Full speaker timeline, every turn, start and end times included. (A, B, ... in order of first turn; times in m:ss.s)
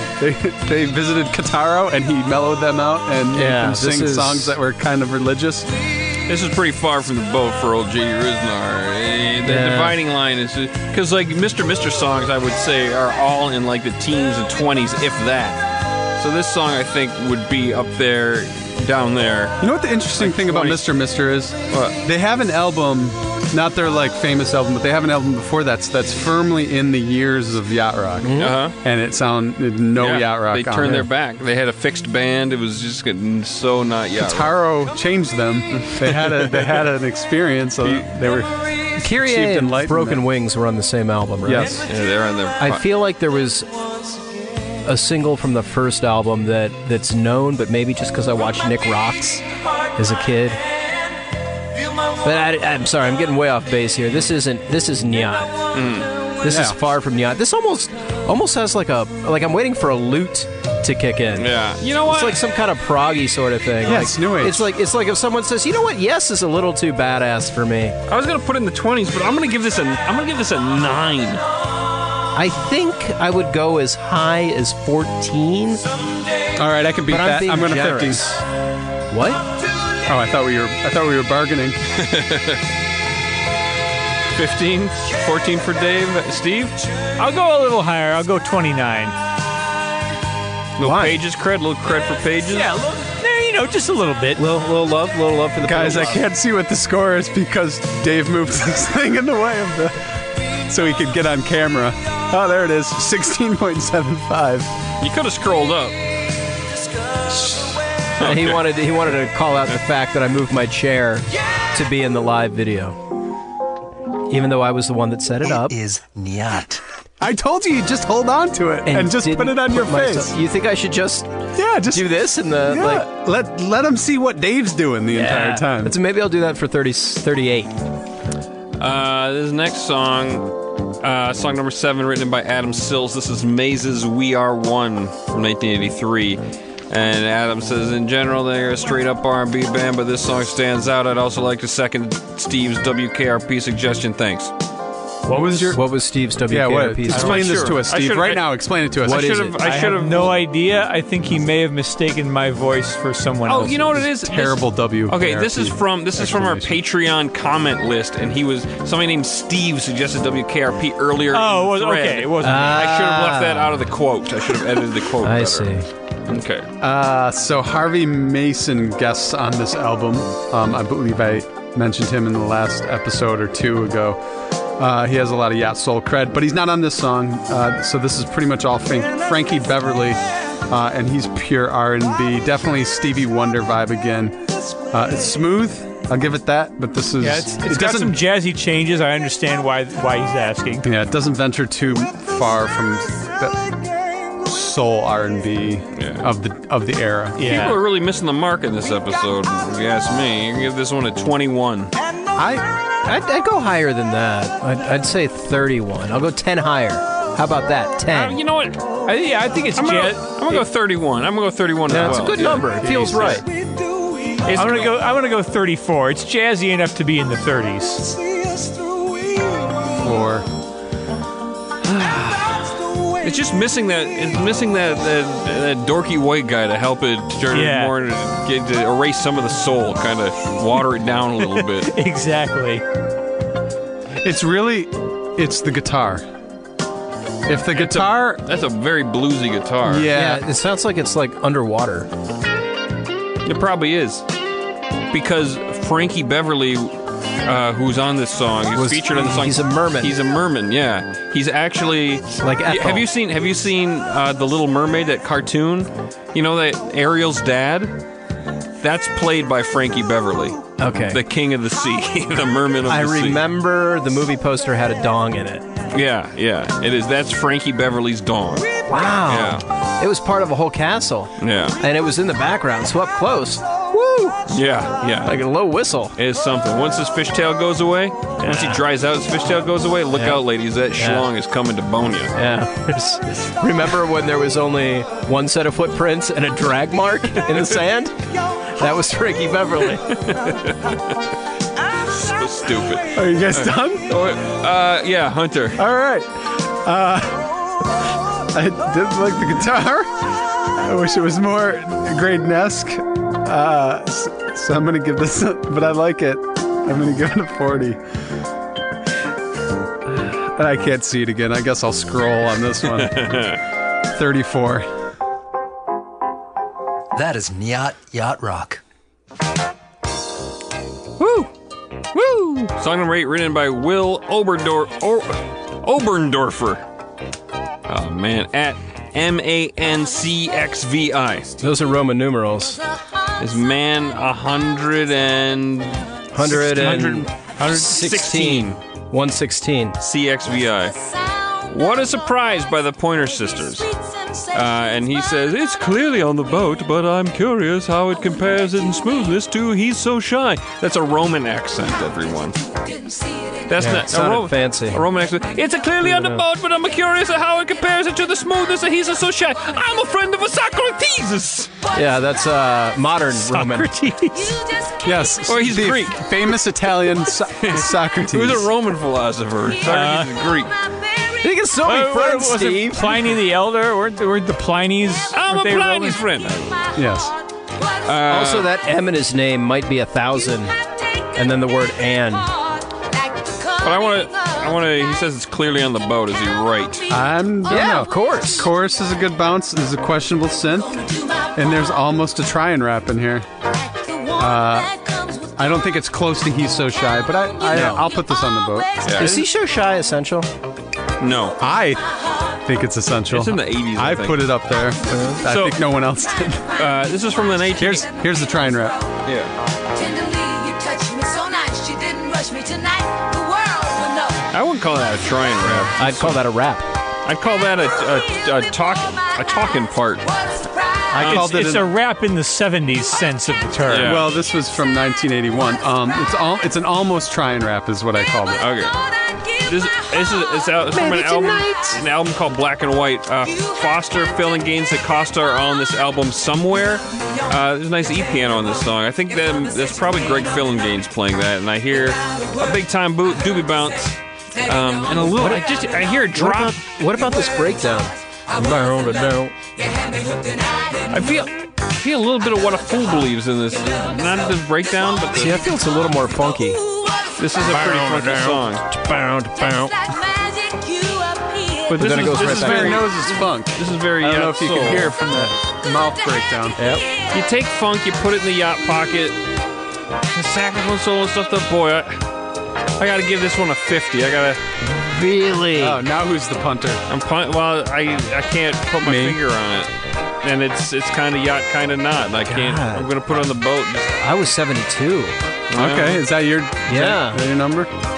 0:00.2-0:05.7 A
0:03.3-0:04.6 B
0:06.3-0:15.6 C
0:09.4-0:10.0 B
0:16.2-0:19.6 C
0:19.6-0:31.1 A
0:20.2-0:20.9 C
0:21.7-0:22.0 C
0:28.2-0:28.6 B
0:28.4-0:28.8 C
0:30.0-0:34.6 C
0:34.2-0:40.2 A
0:35.7-0:36.8 C
0:39.0-0:41.8 B
0:41.4-0:41.9 A
0:41.8-0:42.8 C
0:42.6-0:43.7 B
0:44.8-0:49.4 B
0:50.0-0:50.6 B
0:52.2-0:55.7 B
0:55.7-0:56.1 C
0:56.4-1:01.5 B
0:56.5-0:56.8 A
1:01.4-1:02.4 C
1:02.0-1:08.0 B
1:03.8-1:04.7 A
1:08.1-1:11.4 C
1:12.4-1:15.8 B
1:16.6-1:18.3 A
1:17.1-1:18.4 B
1:19.1-1:19.4 B
1:20.1-1:21.8 A
1:21.9-1:22.6 C
1:24.3-1:26.8 C
1:27.2-1:29.2 D
1:30.8-1:32.7 C
1:30.8-1:31.2 B
1:32.5-1:34.4 D
1:34.4-1:36.2 B
1:35.6-1:44.7 A
1:45.0-1:46.0 C
1:47.3-1:48.6 C
1:48.2-1:53.0 B
1:54.3-1:55.8 B
1:55.4-1:56.8 E
1:57.2-2:00.3 A
1:58.9-2:01.4 B
2:01.6-2:06.0 A
2:01.9-2:03.1 B
2:05.1-2:07.8 B
2:08.8-2:24.5 C
2:25.3-2:25.8 A
2:25.7-2:27.5 B
2:26.5-2:29.4 A
2:27.1-2:28.5 C
2:29.0-2:30.4 C
2:29.0-2:29.6 B
2:29.6-2:34.0 D
2:33.5-2:45.7 C
2:34.2-2:36.8 A
2:41.3-2:42.8 D
2:42.4-2:43.8 B
2:45.2-2:45.9 B
2:46.3-2:46.7 C
2:46.8-2:54.2 A
2:54.8-3:08.2 A
3:07.2-3:10.9 D
3:10.8-3:13.8 A
3:14.4-3:17.4 A
3:16.0-3:16.3 C
3:17.4-3:17.8 D
3:17.4-3:21.9 C
3:22.4-3:22.6 A
3:23.0-3:28.4 B
3:28.1-3:29.0 C
3:29.1-3:30.6 D
3:29.7-3:33.4 C
3:31.9-3:33.4 B
3:32.8-3:33.3 A
3:34.4-3:34.9 C
3:34.5-3:38.2 D
3:40.0-3:40.5 A
3:41.8-3:42.6 C
3:43.2-3:51.9 C
3:47.5-3:48.0 D
3:51.6-3:52.8 D
3:54.2-3:56.3 A
3:57.5-3:58.4 A
3:57.7-4:00.1 C
3:59.8-4:00.4 A
4:00.1-4:02.1 B
4:03.4-4:04.2 C
4:05.1-4:18.0 C
4:08.7-4:10.1 B
4:12.4-4:13.1 B
4:18.8-4:23.4 C
4:20.8-4:21.2 B
4:22.9-4:25.7 B
4:25.9-4:29.6 C
4:28.9-4:34.5 B
4:31.4-4:31.8 C
4:34.5-4:35.4 C
4:35.2-4:36.2 B
4:36.2-4:42.4 C
4:38.4-4:38.8 B
4:40.1-4:40.4 B
4:41.0-4:41.3 B
4:42.3-4:48.2 B
4:48.8-4:50.2 B
4:50.1-4:51.0 C
4:52.1-4:55.8 C
4:53.1-4:54.2 A
4:55.8-5:08.0 A
5:10.1-5:13.6 A
5:12.9-5:13.6 C
5:14.1-5:14.9 A
5:17.2-5:18.8 E
5:21.2-5:21.5 C
5:22.1-5:26.8 C
5:27.9-5:31.5 C
5:31.6-5:32.8 B
5:33.4-5:38.8 C
5:36.3-5:40.0 B
5:40.0-5:41.0 C
5:41.7-5:43.9 C
5:44.5-5:52.7 C
5:53.7-6:01.7 C
5:53.8-5:55.0 B
5:56.0-5:56.4 B
6:01.9-6:03.9 B
6:03.3-6:04.6 D
6:05.0-6:08.7 A
6:05.4-6:06.4 C
6:07.6-6:10.8 C
6:09.8-6:10.3 D
6:11.4-6:13.3 B
6:11.8-6:16.2 D
6:15.3-6:16.9 C
6:17.0-6:17.3 A
6:18.0-6:18.7 C
6:18.3-6:20.8 B
6:21.3-6:22.5 B
6:23.8-6:27.1 C
6:27.1-6:33.5 A
6:27.7-6:28.7 B
6:34.2-6:39.1 A
6:37.7-6:38.1 B
6:39.0-6:39.4 C
6:39.2-6:40.5 B
6:41.2-6:41.6 C
6:41.6-6:46.8 A
6:43.3-6:44.5 C
6:45.1-6:45.4 B
6:45.4-6:45.8 C
6:46.8-6:48.1 C
6:47.8-6:49.1 A
6:49.2-6:49.5 C
6:54.5-6:56.4 C
6:55.9-6:56.8 B
6:57.2-7:00.5 C
7:01.1-7:01.9 A
7:01.2-7:01.5 C
7:01.2-7:04.2 D
7:03.9-7:04.2 C
7:04.0-7:08.6 A
7:08.6-7:09.0 C
7:09.6-7:26.8 C
7:10.9-7:12.0 B
7:25.3-7:25.6 B
7:26.3-7:29.6 B
7:31.1-7:35.7 C
7:35.3-7:36.8 B
7:37.4-7:38.8 C
7:37.7-7:40.1 B
7:41.9-7:43.0 B
7:41.9-7:45.2 C
7:42.1-7:46.8 A
7:46.8-7:47.1 B
7:47.2-7:49.4 C
7:50.3-7:52.2 C
7:53.0-7:54.6 C
7:55.0-7:56.0 B
7:55.8-7:57.0 A
7:57.1-8:04.2 C
7:59.0-7:59.4 A
8:02.5-8:03.1 B
8:04.2-8:05.4 B
8:05.7-8:06.2 C
8:05.8-8:07.9 A
8:06.9-8:07.4 B